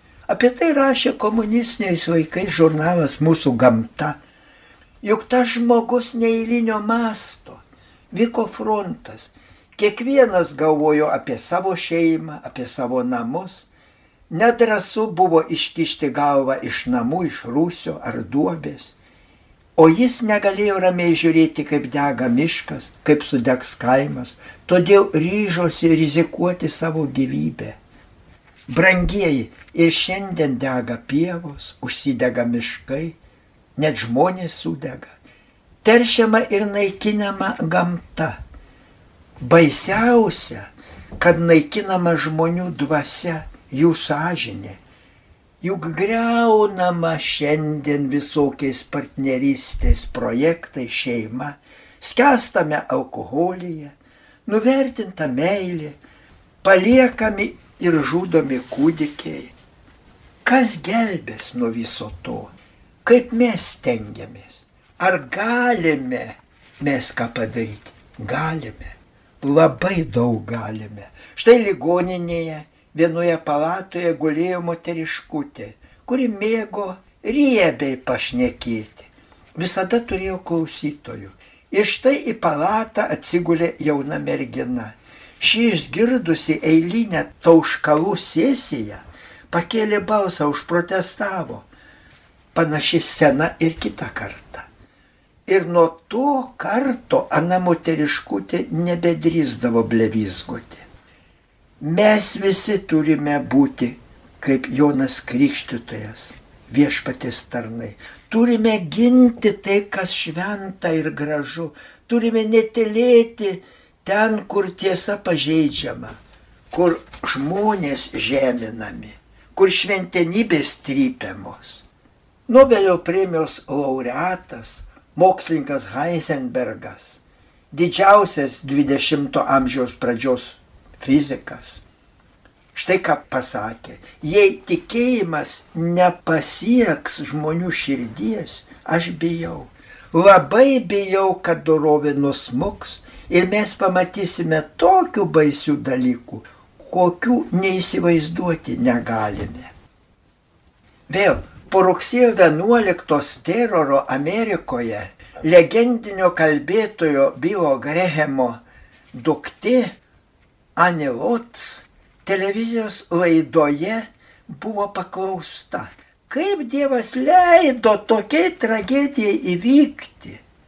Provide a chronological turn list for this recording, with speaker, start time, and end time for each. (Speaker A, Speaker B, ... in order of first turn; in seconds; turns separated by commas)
Speaker A: 0.3-4.1, Speaker A: 5.0-7.6, Speaker A: 8.1-13.6, Speaker A: 14.3-18.9, Speaker A: 19.8-27.8, Speaker A: 28.7-33.1, Speaker A: 33.8-35.0, Speaker A: 35.8-38.3, Speaker A: 39.4-40.5, Speaker A: 41.2-44.7, Speaker A: 45.6-51.5, Speaker A: 52.0-53.8, Speaker A: 54.5-55.9, Speaker A: 56.6-59.5, Speaker A: 60.4-62.5, Speaker A: 63.0-66.3, Speaker A: 66.8-68.9, Speaker A: 69.4-84.8, Speaker A: 85.4-89.0, Speaker A: 89.5-91.6, Speaker A: 92.5-94.7, Speaker A: 95.5-100.8, Speaker A: 101.8-116.1, Speaker A: 116.7-121.8, Speaker A: 122.5-127.2, Speaker A: 127.7-131.8, Speaker A: 132.7-149.7, Speaker A: 151.1-158.6, Speaker A: 159.1-159.8, Speaker A: 160.8-161.7, Speaker A: 162.2-170.4